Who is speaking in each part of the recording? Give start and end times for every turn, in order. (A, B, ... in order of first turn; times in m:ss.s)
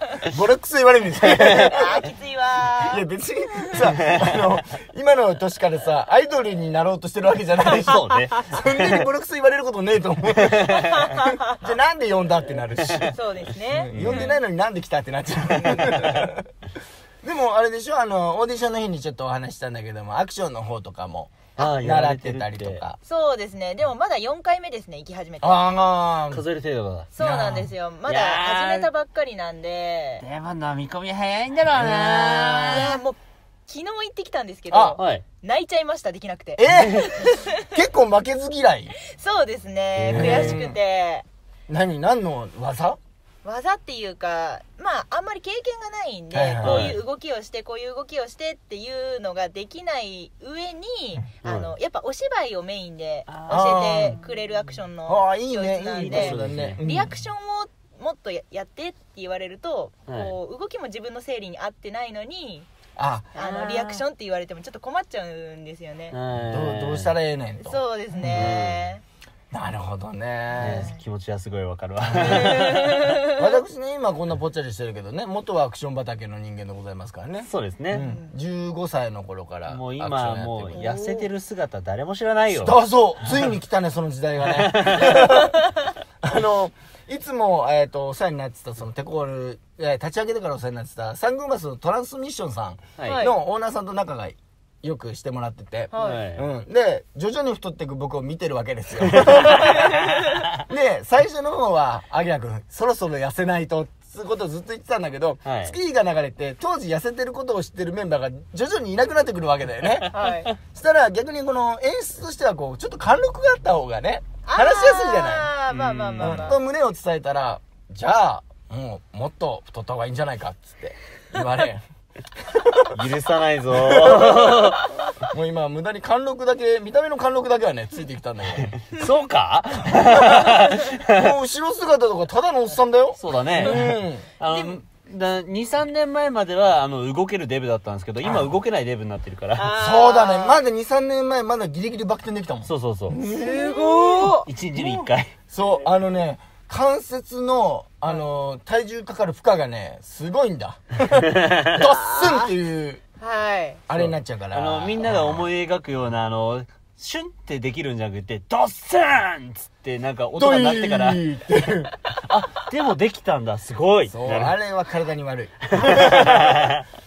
0:00.3-0:02.0 A
0:01.2-0:01.8 B
0:01.7-0:03.0 C
0:02.8-0:13.1 A
0:04.0-0:04.4 B
0:07.7-0:08.6 B
0:10.3-0:11.2 B
0:10.8-0:11.6 C
0:12.8-0:13.1 B
0:13.1-0:14.3 C
0:13.7-0:16.5 A
0:13.9-0:14.3 B
0:17.2-0:23.0 A
0:21.6-0:22.8 B
0:23.0-0:25.8 C
0:25.4-0:26.4 A
0:26.3-0:27.1 B
0:27.1-0:30.2 C
0:27.2-0:27.7 A
0:28.1-0:28.9 B
0:30.2-0:33.0 B
0:31.7-0:32.9 A
0:32.7-0:37.7 C
0:34.7-0:35.0 A
0:35.0-0:35.2 B
0:36.6-0:38.9 A
0:39.0-0:41.2 C
0:40.0-0:40.6 B
0:40.1-0:40.8 A
0:41.7-0:43.0 A
0:43.4-1:02.7 C
0:46.3-0:47.0 A
0:46.6-0:47.0 B
0:51.4-0:51.7 B
0:53.3-0:54.2 B
0:53.5-0:54.2 A
0:55.1-0:57.1 A
0:56.0-0:56.8 B
1:00.1-1:00.3 B
1:03.0-1:03.3 A
1:03.3-1:04.0 B
1:03.3-1:06.2 C
1:06.1-1:07.1 B
1:06.3-1:08.5 A
1:07.6-1:09.0 C
1:08.2-1:08.9 B
1:09.5-1:10.9 A
1:10.5-1:11.0 C
1:10.6-1:13.2 B
1:12.2-1:12.6 A
1:12.2-1:13.3 C
1:13.3-1:20.9 A
1:17.5-1:18.1 B
1:18.0-1:18.3 C
1:19.7-1:22.8 B
1:20.8-1:21.2 C
1:22.5-1:25.7 A
1:24.5-1:25.3 B
1:26.2-1:55.5 A
1:33.0-1:33.2 B
1:33.0-1:33.3 C
1:35.9-1:36.2 C
1:36.0-1:36.4 B
1:39.1-1:39.7 B
1:39.7-1:40.2 C
1:45.4-1:45.7 B
1:50.1-1:50.5 C
1:54.4-1:56.6 C
1:55.7-1:56.5 B
1:56.2-2:01.8 A
2:02.4-2:03.0 A
2:02.9-2:04.9 B
2:03.7-2:04.8 A
2:05.3-2:08.8 A
2:08.6-2:11.3 B
2:09.8-2:14.3 A
2:13.2-2:19.7 B
2:14.4-2:14.8 C
2:18.2-2:18.5 A
2:19.6-2:20.6 C
2:19.7-2:33.0 A
2:22.6-2:23.2 B
2:23.2-2:24.5 C
2:24.4-2:25.3 B
2:31.2-2:31.8 B
2:31.8-2:32.5 C
2:33.2-2:33.8 C
2:33.9-2:35.5 A
2:33.9-2:41.2 B
2:40.4-2:42.4 A
2:42.3-2:44.5 B
2:44.1-2:46.7 A
2:45.7-2:46.8 B